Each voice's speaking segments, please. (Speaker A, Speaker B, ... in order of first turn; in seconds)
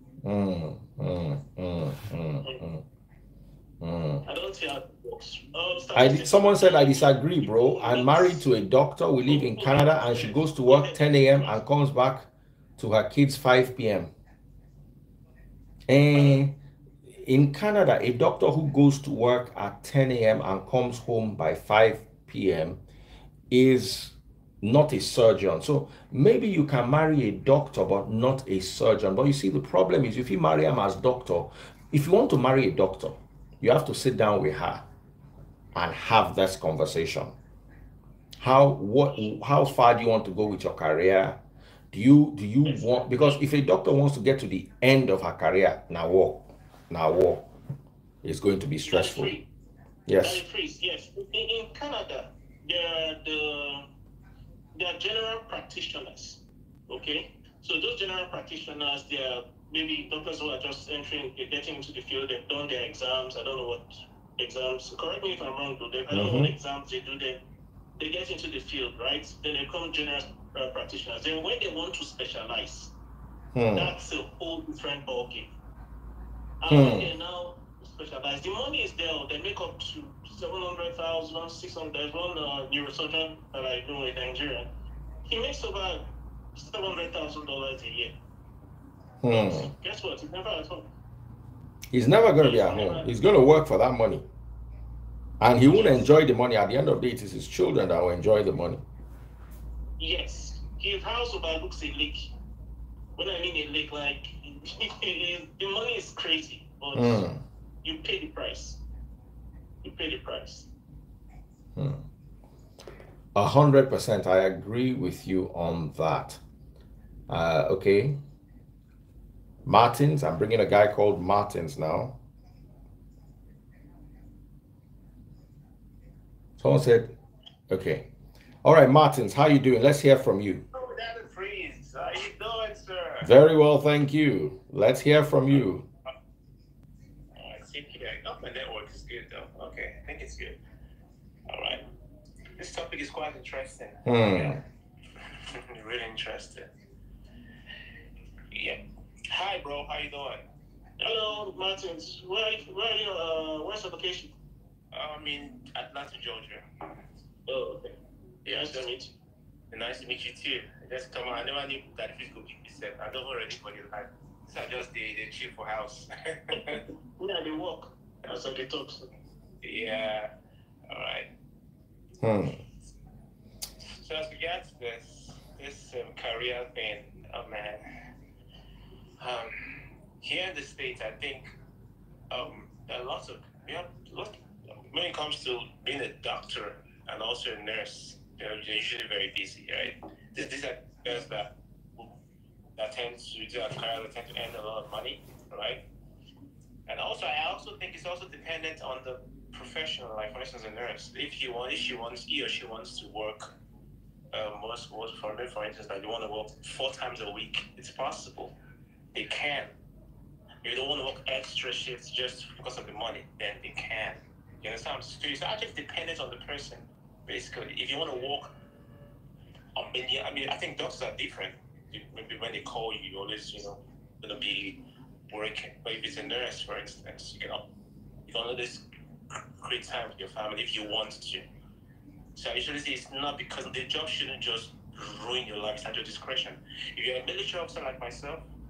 Speaker A: 0.2-2.9, 3.8-4.2, 6.0-14.1, 15.9-16.6, 17.1-22.8, 23.5-34.9, 35.8-37.4, 38.4-41.4, 41.9-47.5, 48.2-49.4, 50.1-50.4, 66.1-66.5, 73.5-74.0, 76.7-77.1, 89.2-89.7, 91.9-94.2, 95.4-98.8, 106.9-107.4, 111.8-112.0, 113.3-116.4, 117.3-118.2, 119.7-122.2, 126.6-127.2, 127.7-128.1, 128.6-130.6, 133.2-135.8, 144.1-144.6, 172.2-172.6
Speaker B: 4.3-8.5, 9.3-11.6, 42.7-43.4, 48.8-49.5, 50.2-53.9, 54.8-67.4, 68.0-72.9, 73.7-75.5, 76.6-84.7, 85.3-88.1, 89.3-90.9, 92.4-93.1, 95.7-96.1, 100.0-102.3, 103.2-107.3, 107.8-108.8, 109.8-110.7, 151.0-154.3, 157.5-159.1, 166.6-169.1
Speaker C: 130.7-133.3, 137.4-140.6, 141.5-141.8, 142.6-144.6, 145.5-146.7, 148.5-150.4, 154.9-156.7, 158.5-158.9, 159.7-166.8, 169.6-170.3, 170.9-171.3, 173.8-177.8, 179.2-179.6, 180.2-181.5, 182.3-192.1, 192.8-195.8, 196.9-203.5, 204.3-208.6, 209.1-209.7, 210.6-218.5, 219.8-227.6, 228.3-231.5, 232.3-238.5